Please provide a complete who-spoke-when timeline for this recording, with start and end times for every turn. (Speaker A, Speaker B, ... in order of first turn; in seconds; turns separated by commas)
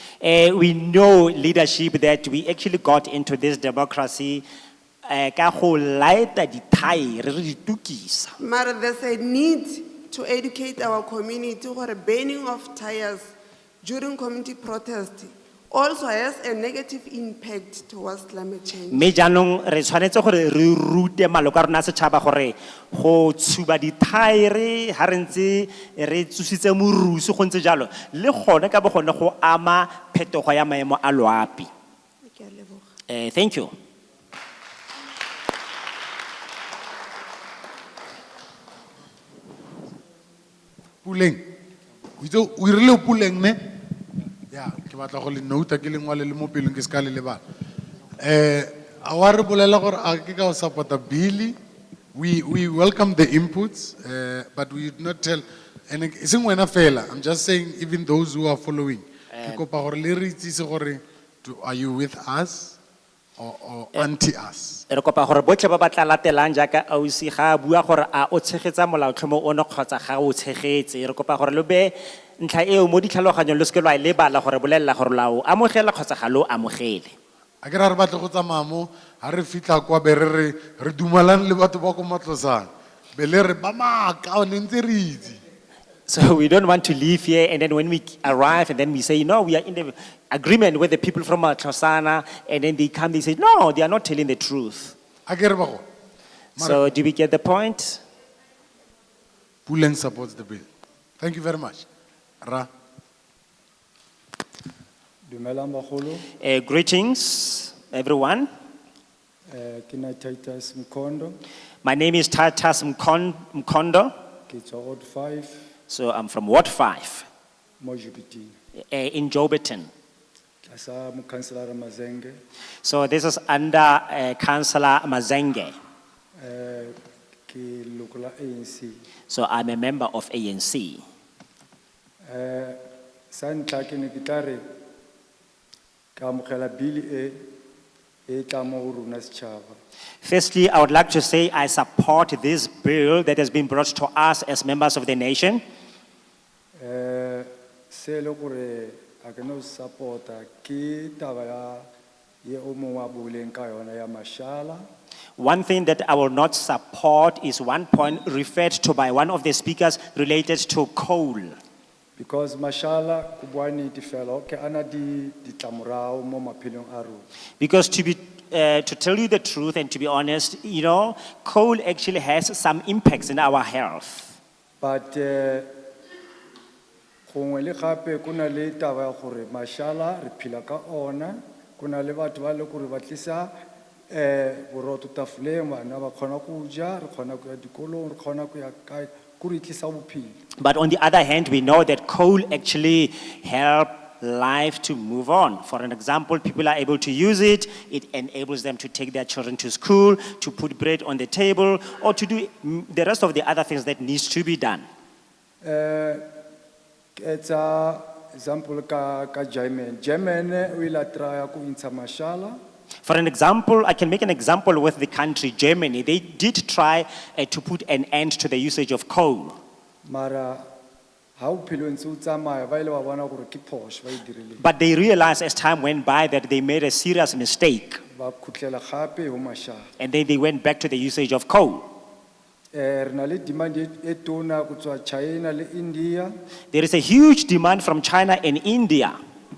Speaker A: 0.2-4.4, Speaker A: 5.0-8.3, Speaker B: 8.4-13.3, Speaker B: 13.8-19.1, Speaker A: 18.9-31.7, Speaker B: 32.2-32.9, Speaker A: 33.1-33.7, Speaker C: 41.0-41.5, Speaker C: 42.2-43.6, Speaker C: 44.5-47.4, Speaker C: 48.2-51.6, Speaker C: 52.1-62.8, Speaker A: 59.3-59.6, Speaker C: 63.4-64.8, Speaker A: 64.9-77.1, Speaker C: 77.6-85.4, Speaker A: 86.1-95.0, Speaker C: 95.3-95.8, Speaker C: 96.6-96.9, Speaker A: 96.6-98.0, Speaker C: 99.7-100.7, Speaker C: 101.2-101.8, Speaker C: 102.4-102.7, Speaker D: 105.3-106.3, Speaker A: 106.4-108.5, Speaker D: 109.5-111.4, Speaker A: 111.8-114.1, Speaker D: 114.5-115.6, Speaker A: 115.9-117.3, Speaker D: 117.8-118.5, Speaker A: 118.9-119.9, Speaker D: 120.7-122.4, Speaker A: 122.8-125.7, Speaker D: 126.4-129.0, Speaker A: 129.3-131.0, Speaker D: 132.2-132.8, Speaker D: 133.3-134.6, Speaker D: 136.2-137.4, Speaker D: 138.3-139.8, Speaker A: 140.2-145.6, Speaker D: 146.8-151.9, Speaker D: 152.4-154.8, Speaker A: 155.4-161.6, Speaker D: 162.2-167.2, Speaker A: 167.6-174.3, Speaker D: 174.8-175.7, Speaker D: 177.3-183.5, Speaker D: 184.1-190.4, Speaker A: 190.6-204.8, Speaker D: 205.6-206.2, Speaker D: 207.2-212.6, Speaker A: 213.1-219.6, Speaker D: 220.1-220.6, Speaker D: 221.4-224.6, Speaker A: 224.6-228.0, Speaker D: 228.2-229.8, Speaker A: 230.0-231.8, Speaker D: 232.7-236.3, Speaker A: 236.7-239.2